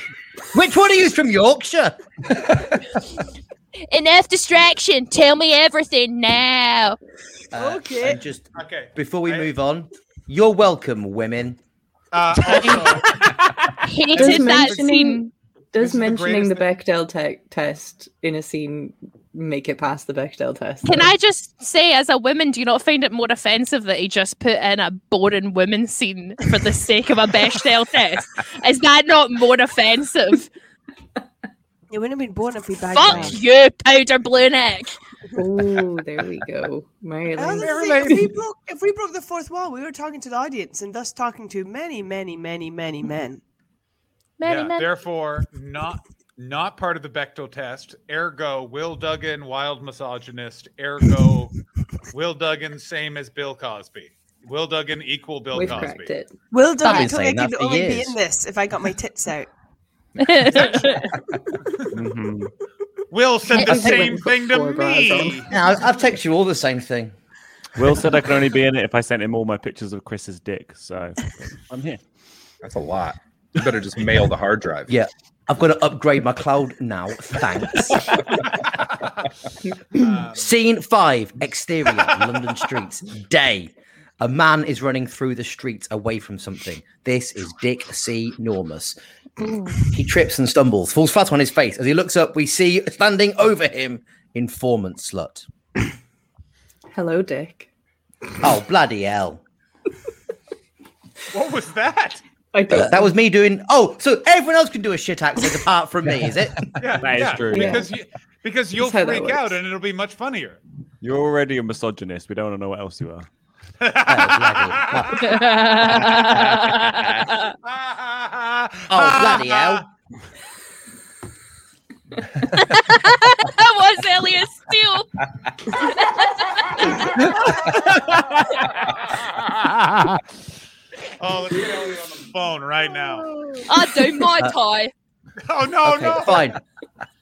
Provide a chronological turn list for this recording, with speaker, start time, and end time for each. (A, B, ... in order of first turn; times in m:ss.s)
0:00.5-0:02.0 A
0:03.9-0:07.0 B
0:07.5-0:11.6 A
0:07.5-0:08.2 C
0:08.6-0:09.5 D
0:12.1-0:14.9 D
0:13.8-0:15.2 B
0:14.1-0:21.1 E
0:15.8-0:16.7 D
0:20.8-0:30.5 B
0:31.9-0:33.4 C
0:32.9-0:35.0 B
0:35.4-0:38.2 E
0:37.4-0:43.4 C
0:37.6-0:38.3 D
0:44.4-0:44.9 B
0:44.4-0:51.5 D
0:52.1-0:56.1 D
0:55.5-0:56.3 E
0:56.5-0:59.5 C
0:56.8-0:58.2 A
1:00.2-1:01.0 B
1:00.4-1:01.0 C
1:01.9-1:02.5 F
1:03.1-1:05.5 D
1:03.5-1:05.5 E
1:03.6-1:04.1 A
1:05.5-1:07.1 A
1:07.8-1:12.0 F
1:12.6-1:14.9 G
1:14.9-1:18.2 A
1:19.9-1:20.5 D
1:20.0-1:29.0 A
1:29.8-1:35.4 A
1:36.9-1:37.7 E
1:38.4-1:39.4 A
1:41.3-1:42.2 D
1:42.5-1:43.1 E
1:42.7-1:46.6 A
1:46.8-1:50.6 D
1:47.0-1:47.9 F
1:47.5-1:47.9 E
1:48.7-1:49.6 E
1:51.0-1:53.3 F
1:53.8-1:55.4 D
1:54.0-1:55.3 A
1:55.3-1:57.5 B
1:57.6-1:59.8 D
1:58.9-1:59.8 A
2:02.5-2:05.1 B
2:05.7-2:07.3 B
2:08.1-2:10.2 D
2:11.2-2:13.3 D
2:13.7-2:14.9 B
2:15.4-2:16.5 D
2:15.8-2:16.6 A